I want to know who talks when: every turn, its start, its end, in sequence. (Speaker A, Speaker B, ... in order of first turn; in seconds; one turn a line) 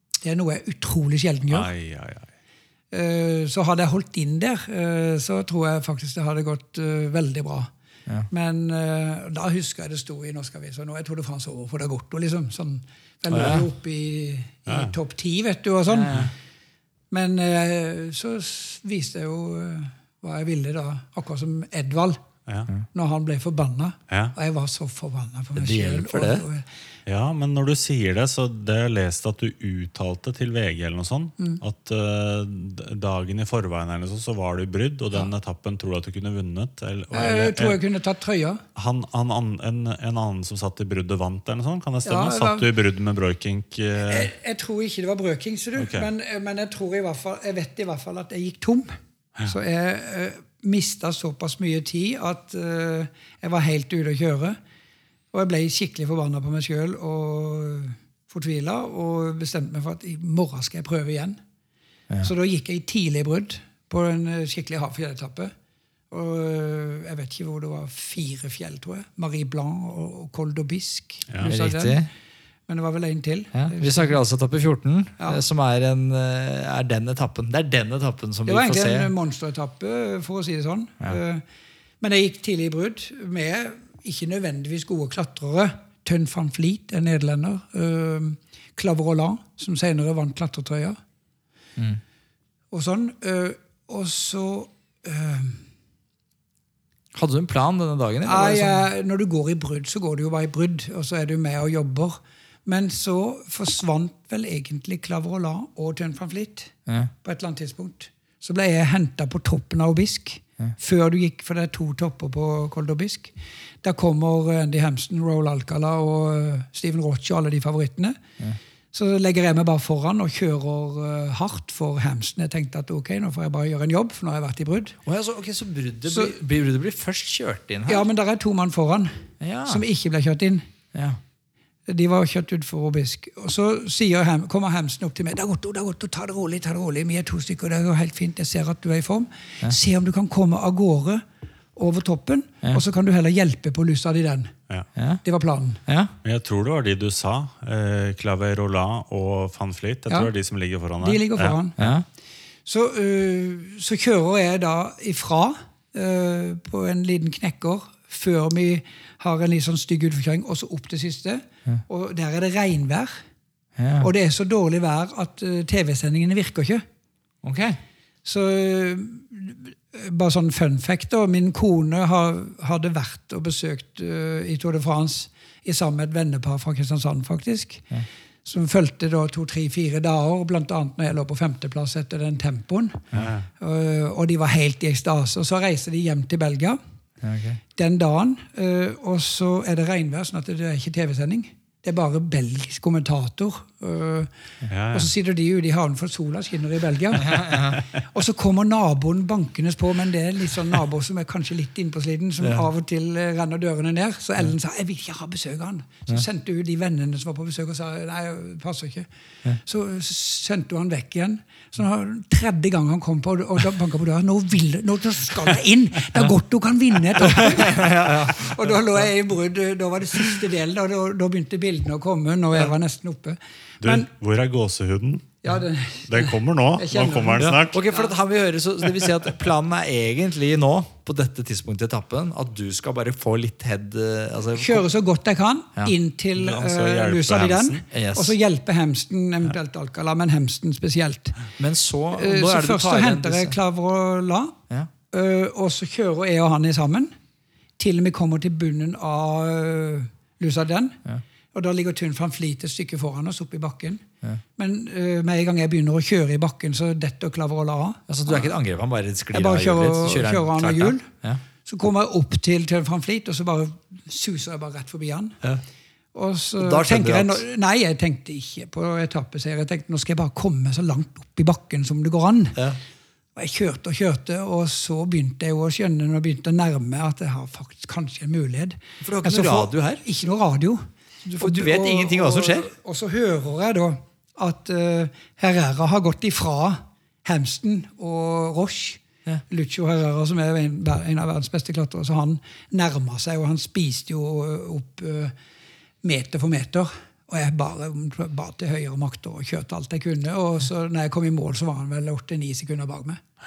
Speaker A: 0.2-1.7
Speaker B: 1.5-2.3
Speaker A: 2.9-7.7
Speaker A: 8.3-16.3
Speaker C: 13.3-13.7
Speaker B: 14.7-14.9
Speaker C: 15.9-16.3
Speaker A: 17.1-22.2
Speaker A: 22.9-26.7
Speaker B: 24.1-24.3
Speaker C: 25.6-26.5
Speaker B: 27.1-37.8
Speaker A: 37.1-38.6
Speaker B: 38.8-44.3
Speaker A: 42.0-42.7
Speaker A: 44.1-49.0
Speaker B: 45.8-46.1
Speaker A: 49.5-54.6
Speaker A: 55.3-61.4
Speaker A: 62.2-65.5
Speaker A: 66.1-72.0
Speaker C: 71.4-72.1
Speaker A: 72.7-74.2
Speaker C: 73.5-79.1
Speaker A: 78.5-81.4
Speaker A: 82.0-91.0
Speaker A: 92.7-95.6
Speaker C: 97.1-98.8
Speaker A: 98.2-118.2
Speaker C: 106.9-107.1
Speaker A: 118.9-125.0
Speaker C: 125.1-128.1
Speaker A: 126.1-126.4
Speaker A: 127.9-130.6
Speaker C: 129.4-129.8
Speaker C: 130.9-131.2
Speaker A: 131.9-141.2
Speaker A: 141.8-144.5
Speaker C: 145.0-145.2
Speaker A: 145.2-145.8
Speaker C: 145.9-146.1
Speaker B: 146.2-151.6
Speaker A: 151.0-151.9
Speaker C: 151.8-152.1
Speaker A: 152.7-163.2
Speaker C: 163.8-164.1
Speaker A: 164.0-166.8
Speaker C: 167.4-167.8
Speaker A: 168.2-177.9
Speaker A: 178.4-183.1
Speaker B: 183.1-183.5
Speaker A: 183.6-186.8
Speaker C: 187.2-187.6
Speaker A: 187.8-194.3
Speaker B: 194.7-195.1
Speaker A: 194.9-209.1
Speaker C: 197.3-197.8
Speaker A: 209.6-224.1
Speaker C: 217.2-219.0
Speaker B: 223.8-225.4
Speaker A: 225.4-228.1
Speaker B: 226.1-227.8
Speaker C: 227.4-234.9
Speaker A: 234.5-241.4
Speaker B: 236.4-237.9
Speaker C: 237.9-238.4
Speaker C: 241.6-243.6
Speaker A: 242.1-244.6
Speaker A: 245.1-247.1
Speaker A: 247.8-251.0
Speaker A: 251.5-254.0
Speaker A: 254.6-258.5
Speaker C: 258.1-261.4
Speaker A: 259.3-261.1
Speaker A: 261.6-265.4
Speaker A: 266.1-272.6
Speaker C: 266.6-267.4
Speaker A: 273.4-295.3
Speaker C: 279.0-280.0
Speaker C: 281.4-282.7
Speaker A: 296.0-303.2